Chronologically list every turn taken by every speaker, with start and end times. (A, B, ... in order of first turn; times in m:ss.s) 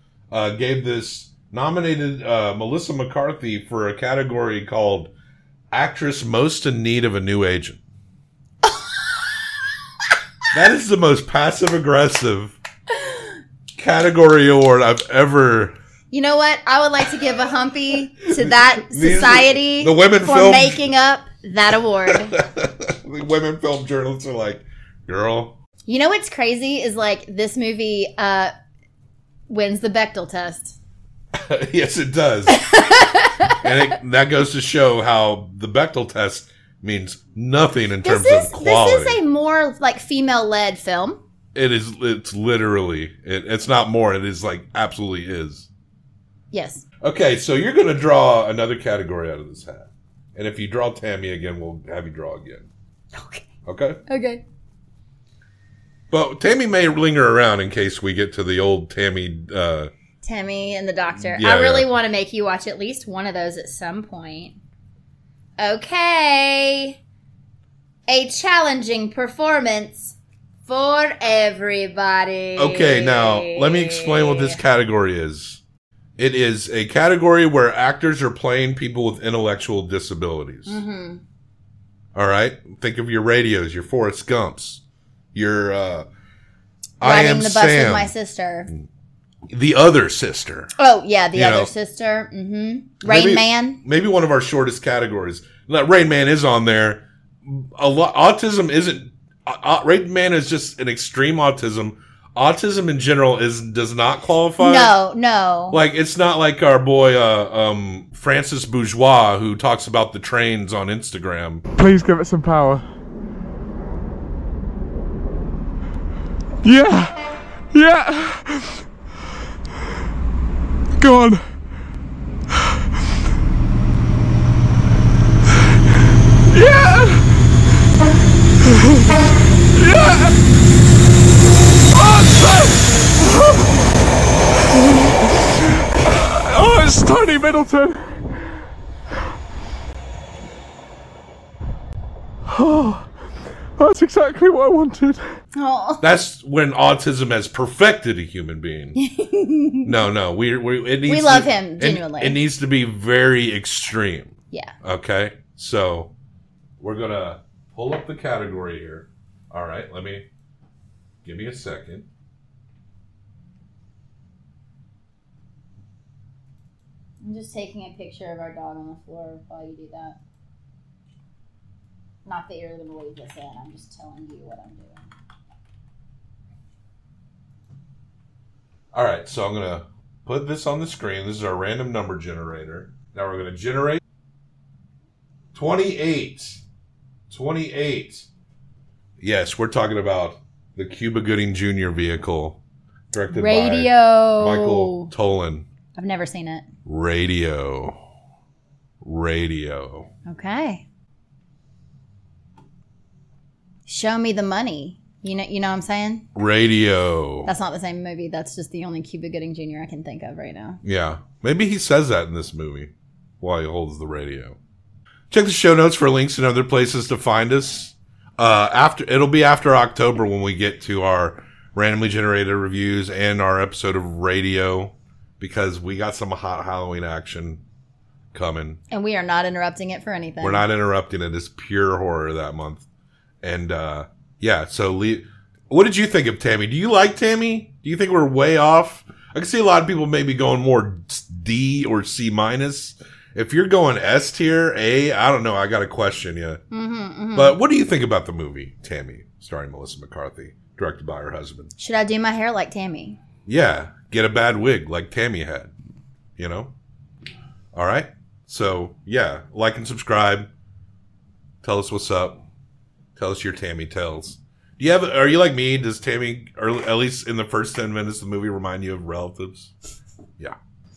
0:00.3-0:05.1 A
0:05.7-0:07.8 A
0:10.5-0:12.6 A
0:13.0-0:13.2 B
0:13.8-0:15.7 A
0:16.1-0:22.4 B
0:18.3-0:20.8 A
0:22.1-0:25.5 A
0:25.9-0:28.5 B
0:29.5-0:30.8 B
0:31.4-0:32.8 A
0:32.5-0:33.6 B
0:33.6-0:39.2 A
0:38.0-0:41.2 B
0:41.5-0:45.7 A
0:46.5-0:46.8 B
0:47.0-0:52.7 A
0:53.1-0:53.5 B
0:53.6-0:54.0 A
0:54.1-0:54.4 B
0:56.1-0:59.9 A
1:00.2-1:04.6 B
1:01.2-1:01.9 A
1:05.6-1:07.0 B
1:08.1-1:14.6 B
1:12.6-1:15.6 A
1:16.2-1:20.8 A
1:20.6-1:21.2 B
1:22.1-1:24.8 A
1:25.3-1:26.0 A
1:27.0-1:28.1 A
1:27.0-1:28.7 B
1:29.5-1:30.7 A
1:30.8-1:33.8 B
1:31.3-1:31.7 A
1:33.0-1:44.9 A
1:44.6-1:45.8 B
1:45.7-1:51.6 A
1:51.7-1:52.8 C
1:56.6-1:57.1 C
1:57.7-1:58.8 C
2:01.0-2:01.5 C
2:02.5-2:02.8 C
2:06.5-2:07.5 C
2:08.6-2:10.4 C
2:11.9-2:13.8 C
2:14.7-2:18.3 C
2:22.5-2:23.1 C
2:23.8-2:25.3 C
2:25.5-2:26.0 B
2:26.0-2:29.0 A
2:29.0-2:29.9 B
2:29.8-2:36.1 A
2:31.0-2:32.4 B
2:36.8-2:40.2 A
2:41.2-2:42.0 A
2:47.2-2:50.2 B
2:52.2-2:55.1 B
2:58.9-3:04.0 A
3:05.5-3:06.6 A
3:07.3-3:08.3 A
3:09.2-3:12.6 A
3:13.1-3:15.6 A
3:13.3-3:15.1 B
3:16.0-3:16.6 B
3:16.8-3:17.9 A
3:19.0-3:20.1 A
3:20.3-3:20.8 B
3:23.9-3:26.2 B
3:26.3-3:27.5 A
3:27.4-3:30.8 B
3:30.8-3:34.6 A
3:35.3-3:47.6 A
3:48.3-3:48.8 A
3:48.9-3:50.6 B
3:50.4-3:52.8 A
3:53.4-4:06.6 A
4:06.7-4:07.6 B
4:07.3-4:11.7 A
4:11.8-4:13.2 B
4:13.5-4:15.7 A
4:16.4-4:16.7 A
4:17.7-4:20.5 A
4:21.6-4:22.4 A
4:23.2-4:29.7 A